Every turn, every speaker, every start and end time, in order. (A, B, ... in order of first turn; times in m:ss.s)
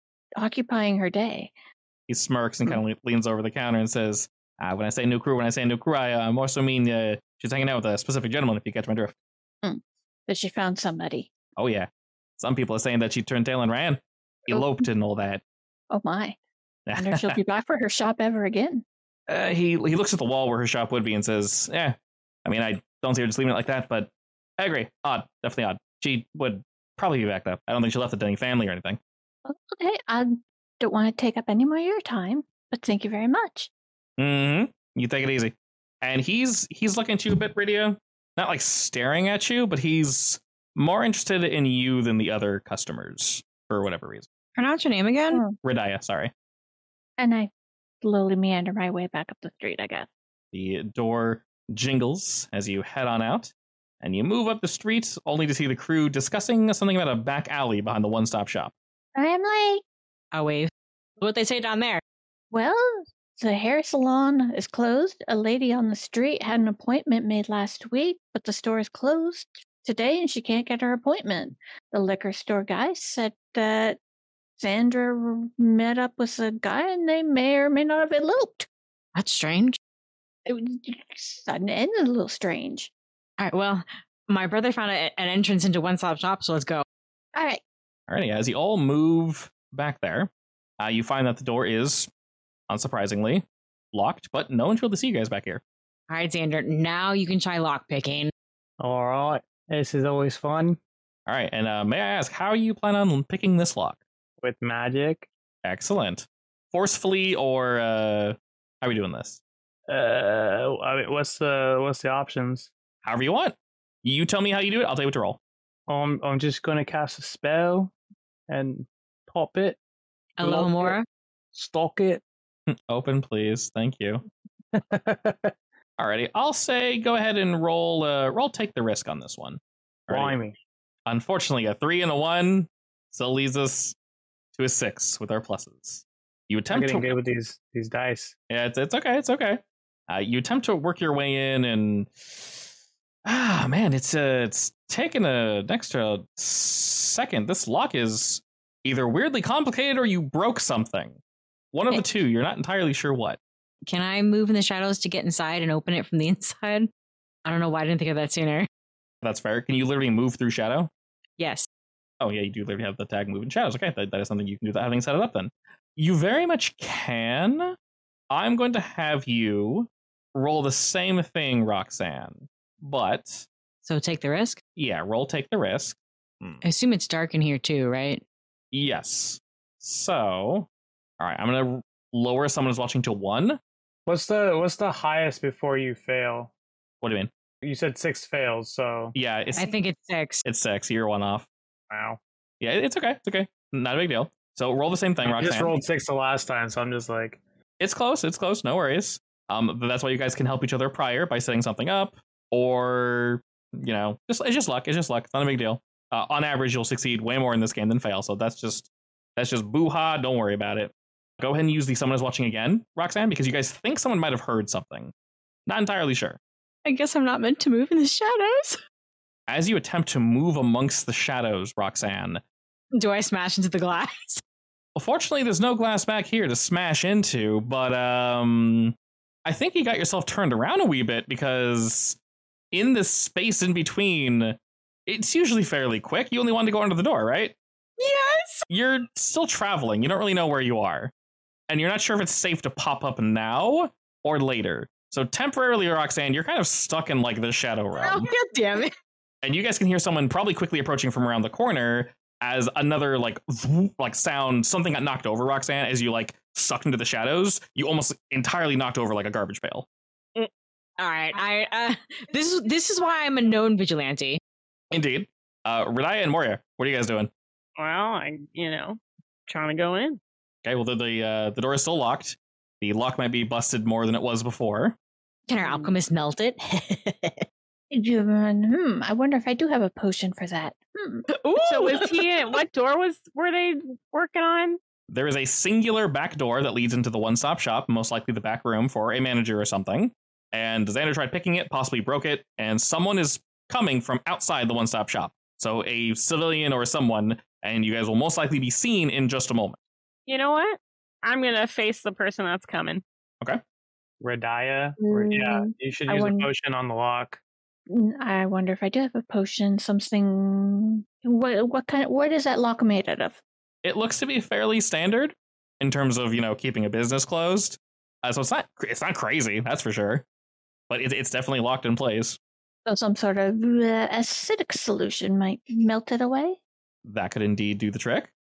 0:00.4-0:01.5 A
0:02.1-0:09.1 B
0:09.6-0:11.3 A
0:11.6-0:15.4 B
0:14.5-0:14.8 A
0:15.9-0:16.4 A
0:16.9-0:17.4 B
0:17.0-0:18.8 A
0:19.3-0:29.0 B
0:29.5-0:33.7 A
0:34.2-0:44.3 B
0:44.6-0:45.4 C
0:45.6-0:46.3 B
0:47.2-0:47.5 A
0:48.0-0:50.1 A
0:50.5-0:58.7 B
0:59.2-0:59.8 A
1:00.3-1:02.0 C
1:02.5-1:14.0 A
1:14.6-1:18.7 A
1:19.2-1:19.8 C
1:20.5-1:22.9 A
1:23.4-1:26.8 C
1:27.4-1:27.6 A
1:28.1-1:32.1 B
1:32.7-1:35.6 B
1:36.1-1:38.3 C
1:38.8-1:40.8 D
1:41.3-1:44.0 B
1:44.4-1:45.3 D
1:45.6-1:49.4 B
1:49.9-1:52.7 D
1:53.0-1:55.4 B
1:55.9-1:57.9 D
1:58.5-1:59.8 D
2:00.4-2:01.0 C
2:00.4-2:01.0 D
2:01.5-2:02.2 D
2:02.7-2:04.2 B
2:04.7-2:05.5 D
2:06.0-2:10.4 B
2:10.1-2:10.6 D
2:11.1-2:14.0 B
2:14.6-2:17.1 B
2:16.7-2:18.4 D
2:18.5-2:22.7 B
2:23.3-2:31.2 B
2:31.7-2:33.4 B
2:33.8-2:36.9 C
2:37.4-2:38.7 C
2:39.2-2:40.9 B
2:41.4-2:41.7 C
2:42.2-2:47.8 B
2:48.3-2:53.5 B
2:53.8-2:54.6 C
2:54.8-2:56.6 B
2:56.6-2:58.2 C
2:58.7-3:00.7 B
3:01.2-3:03.6 B
3:04.1-3:06.5 D
3:07.0-3:07.3 B
3:07.6-3:09.2 D
3:09.2-3:09.7 B
3:09.6-3:10.4 C
3:10.4-3:11.5 B
3:11.9-3:12.2 D
3:12.6-3:15.8 B
3:15.2-3:17.4 D
3:17.8-3:35.1 B
3:35.7-3:36.4 B
3:36.9-3:38.8 C
3:39.5-3:42.4 B
3:43.0-3:44.4 C
3:45.0-3:52.2 B
3:52.7-3:57.6 B
3:58.0-3:58.6 C
3:58.7-4:01.1 B
4:01.7-4:08.3 B
4:08.0-4:08.9 C
4:09.4-4:19.9 B
4:21.0-4:24.4 C
4:24.9-4:27.3 B
4:27.8-4:30.2 E
4:30.6-4:35.0 B
4:35.5-4:37.4 C
4:37.9-4:41.3 A
4:41.4-4:42.3 C
4:41.6-4:44.8 E
4:45.1-4:59.8 B
5:00.3-5:03.0 E
5:04.2-5:07.4 D
5:05.0-5:06.5 A
5:07.9-5:13.4 A
5:13.8-5:20.2 B
5:20.9-5:22.4 B
5:22.9-5:26.6 A
5:27.0-5:28.3 B